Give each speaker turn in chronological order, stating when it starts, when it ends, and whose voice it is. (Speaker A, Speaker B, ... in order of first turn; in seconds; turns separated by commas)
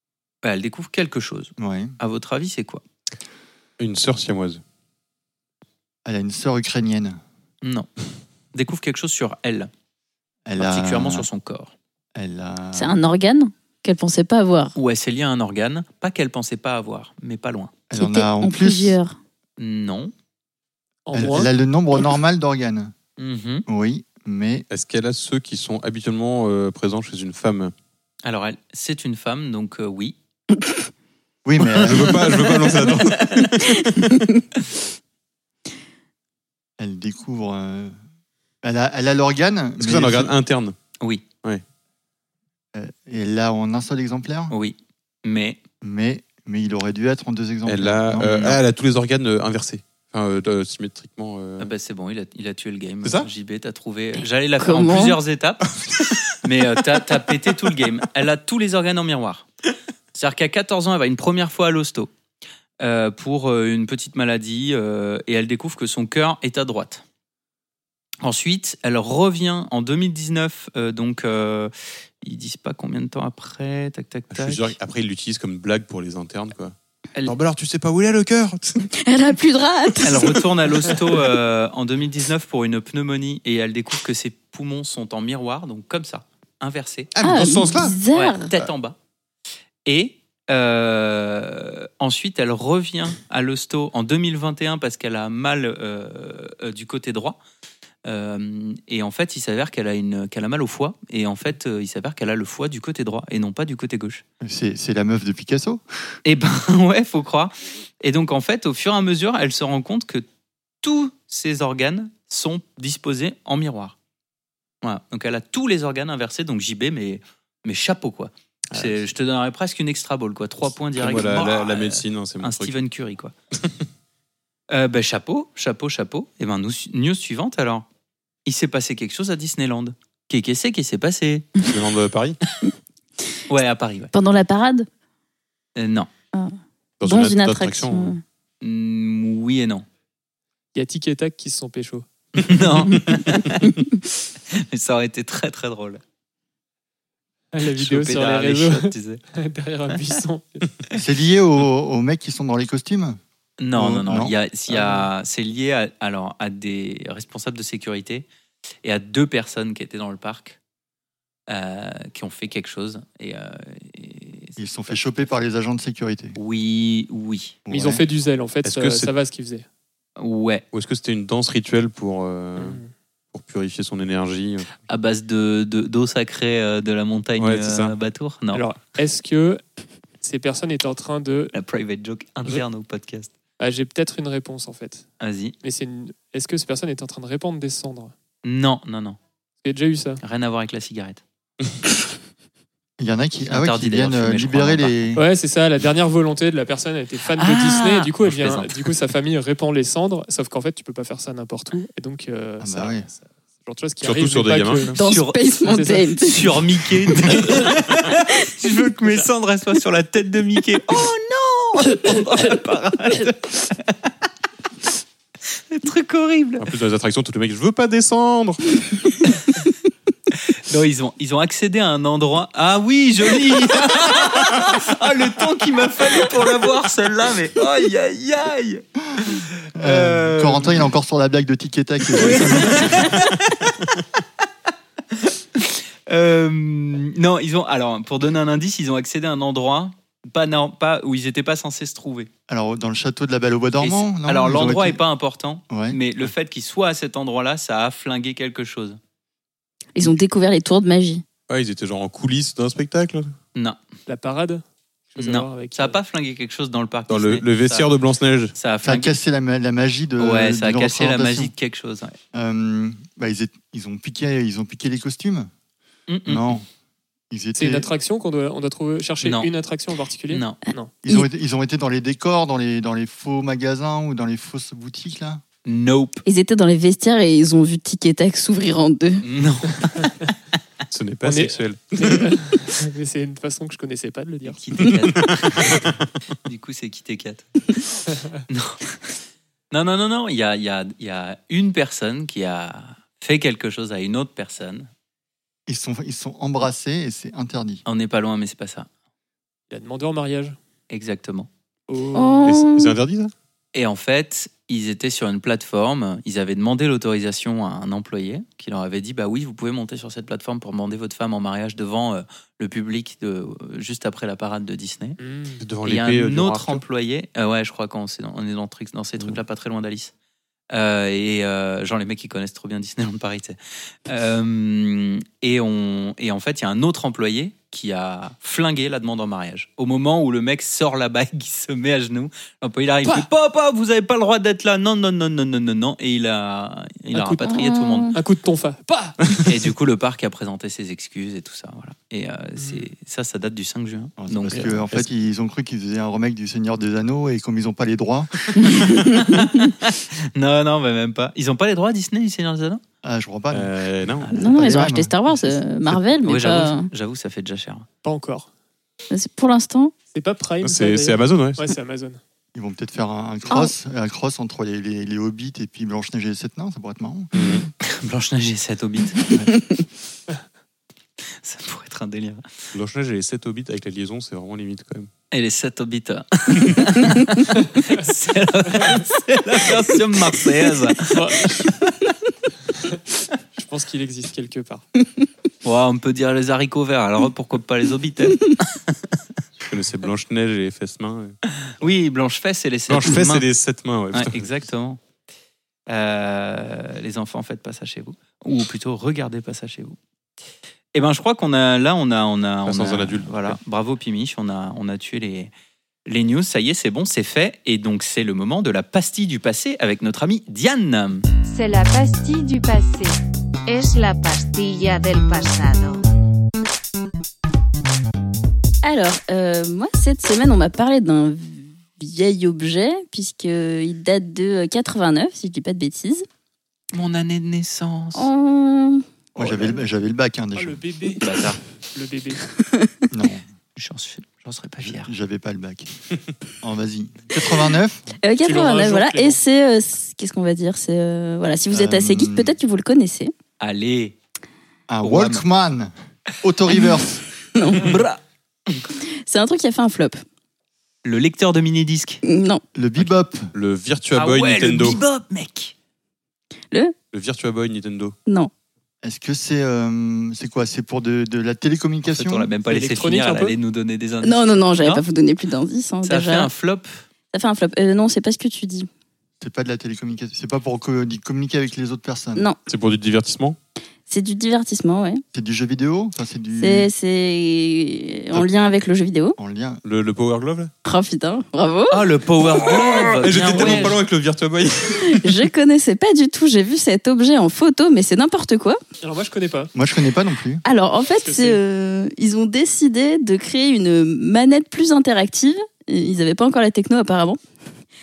Speaker A: 0.4-2.8, Speaker B: 1.6-1.9, Speaker C: 3.8-4.6, Speaker B: 6.0-7.2, Speaker A: 7.6-7.9, Speaker A: 8.5-9.7, Speaker B: 10.4-11.2, Speaker A: 10.6-11.7, Speaker B: 12.2-13.0, Speaker D: 12.8-14.7, Speaker A: 14.8-17.8, Speaker B: 17.9-19.0, Speaker D: 17.9-19.2, Speaker A: 19.6-20.1, Speaker E: 21.1-21.5, Speaker B: 21.1-22.9, Speaker A: 23.2-23.6, Speaker B: 23.7-24.6, Speaker C: 24.7-27.7, Speaker A: 28.2-30.1, Speaker B: 31.4-32.2, Speaker C: 31.7-34.2, Speaker A: 33.2-33.5, Speaker B: 36.8-37.9, Speaker B: 38.6-40.3, Speaker C: 39.8-40.8, Speaker B: 42.7-44.5, Speaker A: 44.5-45.6, Speaker B: 45.8-48.4, Speaker C: 47.6-51.7, Speaker A: 48.2-48.6, Speaker A: 51.6-55.8, Speaker C: 53.0-53.3, Speaker D: 54.6-55.2, Speaker A: 56.4-59.5, Speaker A: 60.1-62.1, Speaker A: 62.8-67.0, Speaker A: 68.2-71.7, Speaker A: 72.2-74.7, Speaker C: 74.3-78.9, Speaker D: 78.9-80.4, Speaker A: 80.0-87.1, Speaker C: 87.1-88.0, Speaker D: 87.2-88.5, Speaker A: 88.1-89.0, Speaker A: 89.9-97.4, Speaker A: 98.0-104.2, Speaker B: 104.4-105.8, Speaker A: 106.2-110.2, Speaker A: 110.8-114.0, Speaker A: 114.8-123.3, Speaker C: 118.7-119.0, Speaker C: 121.0-122.8, Speaker A: 124.7-127.8, Speaker A: 128.5-131.5, Speaker C: 131.7-132.4, Speaker A: 133.5-134.1, Speaker D: 134.1-134.9, Speaker A: 135.8-136.1, Speaker D: 136.3-138.2, Speaker C: 137.0-138.1, Speaker A: 138.6-139.8, Speaker E: 140.8-142.1, Speaker A: 142.3-143.7, Speaker C: 143.0-143.2, Speaker A: 144.5-146.0, Speaker E: 147.5-150.7, Speaker A: 147.7-149.2, Speaker B: 150.9-153.2, Speaker A: 153.6-158.3, Speaker B: 153.7-154.3, Speaker E: 154.7-155.1, Speaker A: 158.8-160.6, Speaker A: 161.5-165.0, Speaker B: 164.6-166.3, Speaker A: 166.3-167.6, Speaker B: 167.7-168.0, Speaker E: 167.7-169.6, Speaker C: 168.6-169.1, Speaker A: 170.2-170.6, Speaker C: 170.7-172.8, Speaker E: 172.6-172.9, Speaker C: 173.3-174.7, Speaker A: 174.9-178.6, Speaker C: 177.4-177.9, Speaker E: 178.5-179.6, Speaker E: 180.2-181.5, Speaker A: 181.5-183.3, Speaker E: 183.6-185.0, Speaker A: 185.2-185.6, Speaker E: 185.6-188.1, Speaker A: 188.4-189.2, Speaker E: 189.6-190.2, Speaker A: 190.2-191.2, Speaker B: 193.0-195.2, Speaker A: 193.5-195.0, Speaker E: 195.2-205.0, Speaker A: 197.3-198.7, Speaker B: 202.6-203.1, Speaker C: 204.0-205.0, Speaker D: 205.0-207.3, Speaker A: 205.0-205.5, Speaker E: 205.6-206.1, Speaker A: 206.2-214.0, Speaker A: 215.7-216.7, Speaker C: 216.6-218.6, Speaker A: 220.7-230.9, Speaker B: 229.2-233.1, Speaker A: 232.1-233.8, Speaker A: 235.1-242.3, Speaker B: 242.5-245.0, Speaker A: 243.8-249.0, Speaker B: 245.7-246.0, Speaker D: 250.0-251.2, Speaker C: 251.5-253.3, Speaker E: 254.1-256.0, Speaker A: 255.2-257.9, Speaker C: 257.1-258.6, Speaker A: 258.6-259.1, Speaker B: 258.8-261.5, Speaker A: 260.2-262.2, Speaker B: 262.3-265.5, Speaker A: 266.1-266.6, Speaker B: 266.2-266.6, Speaker B: 267.3-267.9, Speaker E: 267.5-270.9, Speaker A: 269.2-269.5, Speaker A: 270.3-270.6, Speaker B: 271.0-275.4, Speaker A: 275.6-276.2, Speaker D: 276.2-279.2, Speaker A: 279.2-280.1, Speaker C: 280.9-282.2, Speaker E: 281.2-284.6, Speaker A: 284.4-285.8, Speaker A: 286.4-287.5, Speaker A: 288.5-289.0, Speaker A: 289.7-294.9, Speaker B: 295.7-297.8, Speaker A: 297.9-298.9, Speaker E: 299.7-300.6, Speaker A: 300.9-301.5, Speaker E: 301.9-302.5, Speaker D: 302.1-303.0, Speaker C: 302.4-303.3, Speaker A: 303.7-315.2, Speaker E: 315.2-315.6, Speaker C: 315.6-316.8, Speaker A: 315.9-320.1, Speaker A: 320.7-338.1, Speaker E: 337.1-337.6, Speaker D: 337.4-338.2, Speaker E: 338.1-339.3, Speaker A: 339.4-345.0, Speaker E: 342.6-342.8, Speaker B: 344.2-348.6, Speaker A: 348.6-352.8, Speaker D: 348.7-349.5, Speaker B: 353.0-353.7, Speaker C: 353.5-354.5, Speaker A: 354.2-354.6, Speaker D: 354.4-356.9, Speaker B: 354.4-355.5, Speaker A: 356.2-357.9, Speaker E: 358.0-358.5, Speaker D: 359.1-359.9, Speaker E: 360.1-362.2, Speaker C: 360.6-361.6, Speaker B: 362.5-367.3, Speaker C: 367.3-367.7, Speaker A: 367.8-369.2, Speaker A: 371.4-372.6, Speaker C: 372.7-375.1, Speaker A: 375.3-382.1, Speaker E: 377.6-378.0, Speaker E: 381.1-381.7, Speaker E: 382.8-383.0, Speaker E: 383.5-384.8, Speaker A: 385.6-389.0, Speaker C: 389.6-391.8, Speaker A: 391.7-393.5, Speaker C: 392.9-394.5, Speaker A: 394.1-395.0, Speaker A: 395.9-400.0, Speaker A: 400.9-405.5, Speaker C: 402.6-403.6, Speaker A: 406.1-411.2, Speaker F: 411.4-416.0, Speaker D: 418.8-426.2, Speaker A: 426.9-428.3, Speaker D: 428.1-429.0, Speaker B: 429.4-430.8, Speaker E: 430.5-431.2, Speaker A: 431.2-431.6, Speaker E: 431.9-432.4, Speaker B: 433.1-433.4, Speaker A: 433.8-435.1, Speaker B: 434.8-435.9, Speaker B: 436.6-438.1, Speaker D: 438.2-443.3, Speaker E: 438.4-439.4, Speaker B: 441.7-442.5, Speaker A: 443.6-444.2, Speaker B: 444.9-447.2, Speaker A: 445.0-445.4, Speaker D: 447.6-448.0, Speaker A: 447.8-448.2, Speaker D: 449.2-450.2, Speaker A: 451.0-452.2, Speaker D: 452.2-452.6, Speaker B: 452.8-453.5, Speaker C: 453.5-455.0, Speaker A: 454.1-455.7, Speaker C: 457.1-458.1, Speaker B: 459.0-462.5, Speaker A: 462.0-465.0, Speaker E: 462.7-463.6, Speaker D: 464.2-466.5, Speaker A: 466.0-467.0, Speaker D: 467.3-468.9, Speaker B: 469.4-472.5, Speaker C: 472.6-473.6, Speaker D: 474.1-475.2, Speaker B: 475.3-476.9, Speaker D: 476.6-479.4, Speaker B: 479.4-479.8, Speaker C: 479.8-480.7, Speaker D: 480.8-482.1, Speaker A: 481.9-484.0, Speaker C: 482.5-485.4, Speaker D: 485.0-488.8, Speaker E: 489.0-489.7, Speaker B: 489.8-490.6, Speaker D: 490.6-497.4, Speaker E: 491.2-491.6